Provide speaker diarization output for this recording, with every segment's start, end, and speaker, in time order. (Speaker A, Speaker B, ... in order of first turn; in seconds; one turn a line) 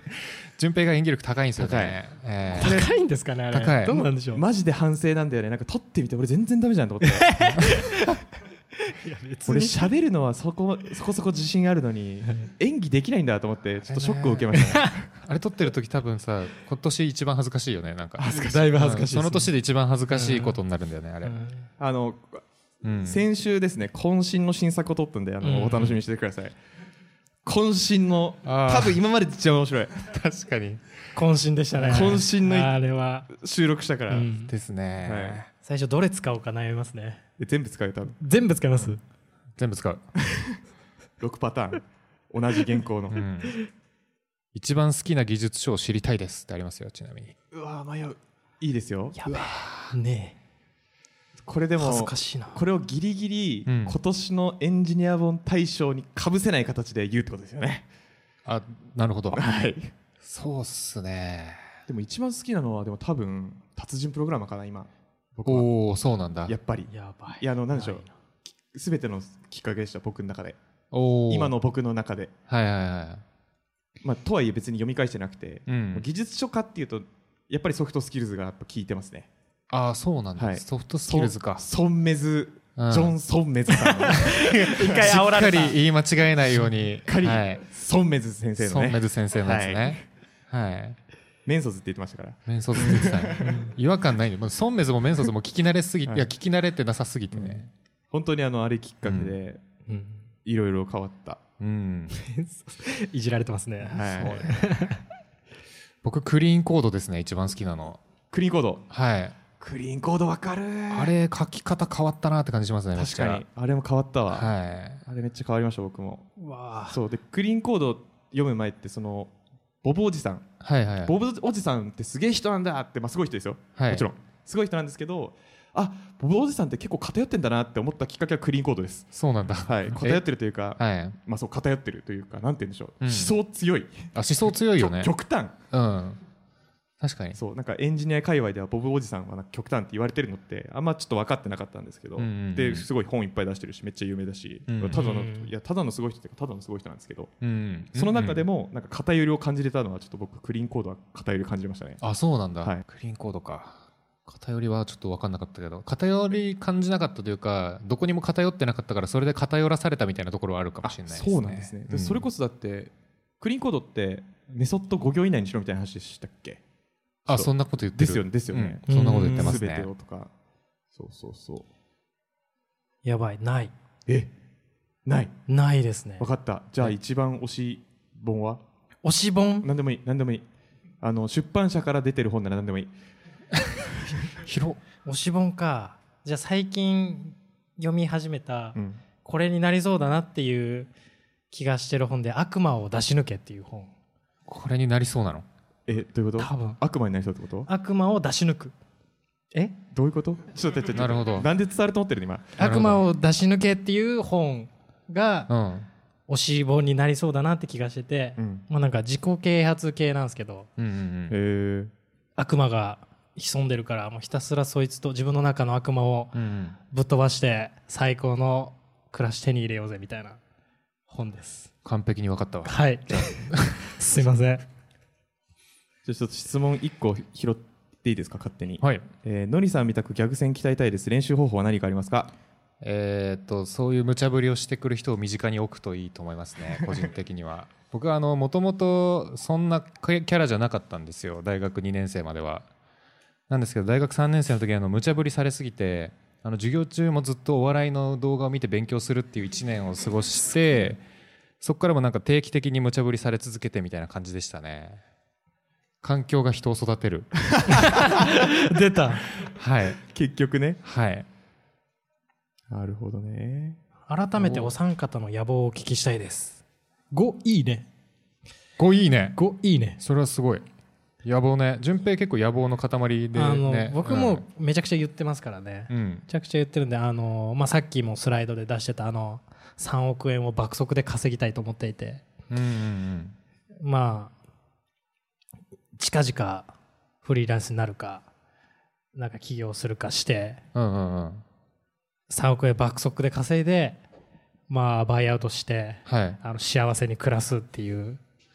Speaker A: 0.6-2.9
Speaker B: 1.6-2.0
Speaker C: 2.6-4.4
Speaker B: 2.6-2.9
Speaker A: 3.5-4.0
Speaker B: 4.3-7.7
Speaker C: 7.0-8.3
Speaker C: 8.8-9.8
Speaker B: 9.5-15.1
Speaker A: 13.9-21.4
Speaker C: 14.6-15.0
Speaker B: 18.2-18.7
Speaker C: 18.2-19.5
Speaker C: 20.1-20.6
Speaker C: 21.2-21.7
Speaker B: 21.8-22.4
Speaker A: 22.8-23.2
Speaker B: 23.0-26.6
Speaker C: 25.4-26.0
Speaker B: 27.4-29.9
Speaker A: 28.4-29.0
Speaker A: 30.1-30.8
Speaker C: 31.1-33.4
Speaker B: 31.9-32.7
Speaker B: 33.3-34.3
Speaker C: 34.1-34.5
Speaker A: 34.5-35.5
Speaker B: 35.0-35.4
Speaker C: 35.6-37.2
Speaker B: 37.4-38.2
Speaker C: 38.2-39.0
Speaker A: 39.6-40.0
Speaker B: 41.2-43.2
Speaker A: 43.1-43.6
Speaker A: 44.5-47.4
Speaker B: 47.5-49.2
Speaker C: 49.2-50.4
Speaker A: 49.3-50.0
Speaker B: 51.4-57.9
Speaker C: 51.8-52.6
Speaker A: 53.7-54.0
Speaker A: 58.5-59.4
Speaker B: 59.3-59.9
Speaker A: 60.2-61.7
Speaker B: 61.9-65.7
Speaker A: 65.5-66.5
Speaker B: 66.5-68.0
Speaker C: 66.9-68.1
Speaker B: 68.7-70.6
Speaker A: 70.9-71.5
Speaker B: 71.3-72.3
Speaker A: 72.5-73.2
Speaker B: 74.0-79.3
Speaker A: 75.7-76.1
Speaker A: 79.7-81.6
Speaker B: 80.4-85.2
Speaker A: 82.8-83.2
Speaker C: 83.9-85.8
Speaker A: 84.2-87.6
Speaker B: 87.0-90.0
Speaker A: 88.6-91.0
Speaker B: 91.5-93.6
Speaker A: 92.5-97.7
Speaker C: 93.4-93.7
Speaker B: 97.3-99.6
Speaker A: 99.0-99.3
Speaker C: 99.9-100.2
Speaker B: 100.5-101.4
Speaker A: 101.6-102.2
Speaker C: 102.1-105.0
Speaker B: 103.8-104.5
Speaker A: 104.1-104.6
Speaker A: 106.0-108.0
Speaker B: 108.3-108.9
Speaker A: 108.9-109.4
Speaker B: 109.6-111.2
Speaker A: 110.9-113.4
Speaker B: 113.0-114.5
Speaker A: 114.3-115.0
Speaker B: 115.0-116.3
Speaker C: 116.4-117.0
Speaker B: 116.9-119.3
Speaker B: 119.8-120.5
Speaker A: 120.6-121.2
Speaker B: 121.0-129.1
Speaker A: 123.8-124.1
Speaker A: 129.1-130.2
Speaker B: 129.7-134.1
Speaker A: 130.8-131.2
Speaker A: 133.0-133.3
Speaker A: 134.1-135.1
Speaker B: 134.8-135.6
Speaker A: 135.7-136.2
Speaker A: 137.0-137.4
Speaker B: 137.3-147.3
Speaker A: 142.2-142.9
Speaker A: 144.7-145.0
Speaker C: 144.9-145.5
Speaker A: 147.4-148.4
Speaker B: 147.9-152.0
Speaker A: 152.0-162.2
Speaker B: 160.8-166.6
Speaker A: 167.3-169.9
Speaker B: 167.3-170.3
Speaker C: 168.9-169.6
Speaker B: 170.9-171.7
Speaker C: 173.0-173.7
Speaker B: 175.1-175.3
Speaker C: 175.5-176.3
Speaker B: 176.2-178.6
Speaker C: 179.0-179.7
Speaker B: 179.6-180.4
Speaker B: 181.0-182.9
Speaker A: 184.4-184.8
Speaker C: 185.0-190.9
Speaker B: 188.8-189.0
Speaker C: 191.5-193.9
Speaker A: 194.5-195.5
Speaker B: 195.9-197.7
Speaker C: 196.4-196.8
Speaker C: 197.7-198.7
Speaker B: 199.6-202.6
Speaker A: 200.9-201.5
Speaker C: 202.6-205.5
Speaker A: 202.6-203.0
Speaker A: 205.5-205.9
Speaker C: 206.3-210.7
Speaker B: 208.4-208.6
Speaker A: 210.8-211.4
Speaker B: 211.3-211.9
Speaker C: 212.4-216.4
Speaker A: 216.3-216.8
Speaker C: 216.9-220.4
Speaker C: 221.1-221.7
Speaker A: 221.8-223.7
Speaker C: 222.7-224.7
Speaker B: 226.1-232.3
Speaker A: 228.8-229.1
Speaker A: 232.8-242.7
Speaker A: 243.5-251.0
Speaker A: 251.6-255.0
Speaker A: 256.0-258.1
Speaker B: 257.5-257.8
Speaker C: 257.8-259.2
Speaker A: 259.4-260.0
Speaker B: 260.0-260.8
Speaker A: 260.8-261.3
Speaker B: 262.7-263.8
Speaker C: 264.1-267.9
Speaker A: 264.4-264.7
Speaker A: 268.8-269.4
Speaker C: 269.4-270.0
Speaker A: 270.0-270.6
Speaker A: 271.2-274.4
Speaker C: 273.3-282.2
Speaker A: 275.9-276.2
Speaker A: 282.5-283.4
Speaker C: 283.8-284.3
Speaker C: 286.0-286.7
Speaker C: 287.2-288.3
Speaker C: 289.1-290.6
Speaker A: 290.8-291.4
Speaker C: 292.3-294.0
Speaker C: 294.7-298.2
Speaker A: 296.1-296.4